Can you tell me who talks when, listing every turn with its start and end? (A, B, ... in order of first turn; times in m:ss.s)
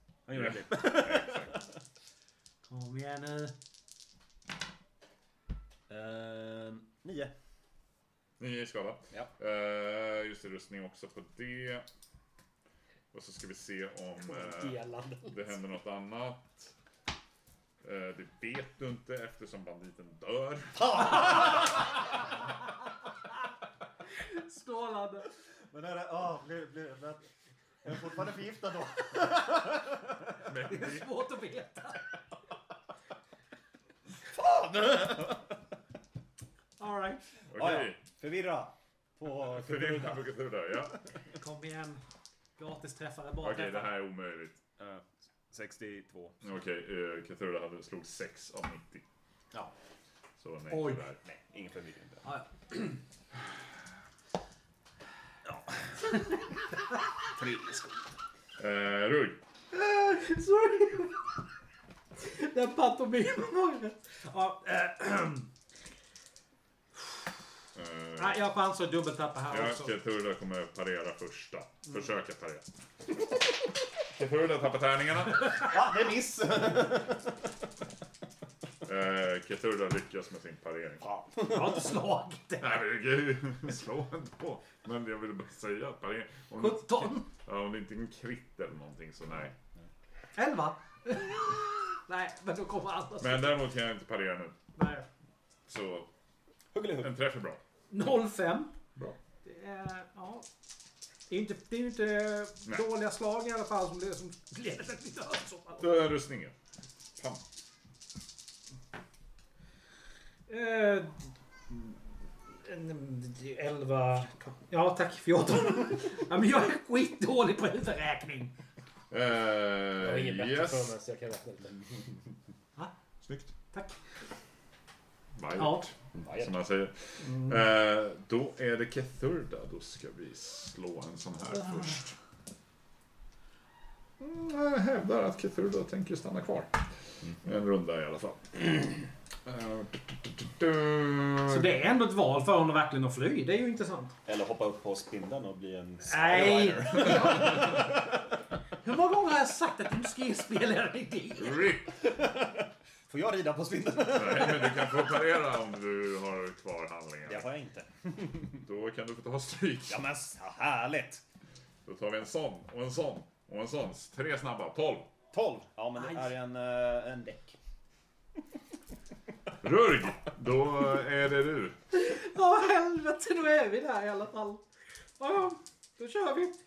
0:00.3-0:01.7 A
0:00.3-0:01.6 B
0:02.6-0:03.5 C
0:05.9-0:07.3 A
0:08.4-0:11.9 B
0:13.1-0:16.7 B
0:14.3-0:15.6 D
0:17.8-0:21.3 B
0:20.8-0:21.8 A
0:24.1-0:25.3 C
0:25.7-0:27.2 A
0:27.8-0:29.9 A
0:30.4-0:31.1 B
0:30.6-0:32.0 C
0:34.3-0:35.6 A
0:36.8-0:37.2 C
0:37.5-0:38.0 B
0:37.5-0:40.3 A
0:39.4-0:41.0 B
0:41.4-0:42.0 C
0:42.6-0:44.0 C
0:43.4-0:44.6 B
0:44.8-0:46.4 A
0:46.4-0:49.0 B
0:50.4-0:51.2 B
0:50.7-0:51.0 C
0:51.2-0:52.3 A
0:52.2-0:53.0 C
0:55.5-0:56.2 A
0:57.2-0:58.0 A
0:58.6-0:59.4 B
0:59.7-1:01.4 C
1:02.2-1:05.5 C
1:07.8-1:08.4 B
1:08.2-1:09.9 C
1:09.5-1:12.7 B
1:14.1-1:15.6 B
1:15.5-1:17.4 A
1:18.8-1:21.1 B
1:21.1-1:21.8 A
1:21.4-1:22.8 C
1:22.6-1:29.5 B
1:26.6-1:27.3 C
1:30.4-1:33.6 C
1:33.2-1:34.6 B
1:34.8-1:35.1 C
1:35.7-1:36.1 B
1:36.7-1:37.1 A
1:37.0-1:37.6 B
1:37.9-1:38.8 C
1:39.4-1:40.5 C
1:41.3-1:45.9 C
1:45.8-1:46.6 B
1:47.2-1:47.4 B
1:50.5-1:51.9 C
1:52.5-1:58.6 C
1:59.1-2:00.9 B
2:00.0-2:01.9 D
2:03.2-2:03.5 B
2:03.7-2:04.0 C
2:05.4-2:12.2 B
2:05.6-2:05.9 C
2:06.2-2:06.5 A
2:07.2-2:07.6 C
2:14.2-2:16.9 B
2:17.4-2:21.7 B
2:21.5-2:24.1 C
2:24.3-2:28.1 A
2:26.0-2:27.9 C
2:28.8-2:31.7 C
2:31.4-2:32.0 B
2:31.9-2:35.1 A
2:34.1-2:37.5 B
2:37.3-2:38.6 A
2:38.6-2:40.0 B
2:39.9-2:41.2 A
2:41.8-2:45.1 B
2:45.3-2:47.6 A
2:46.0-2:46.3 C
2:49.6-2:51.8 B
2:51.9-2:54.6 C
2:55.2-2:56.6 C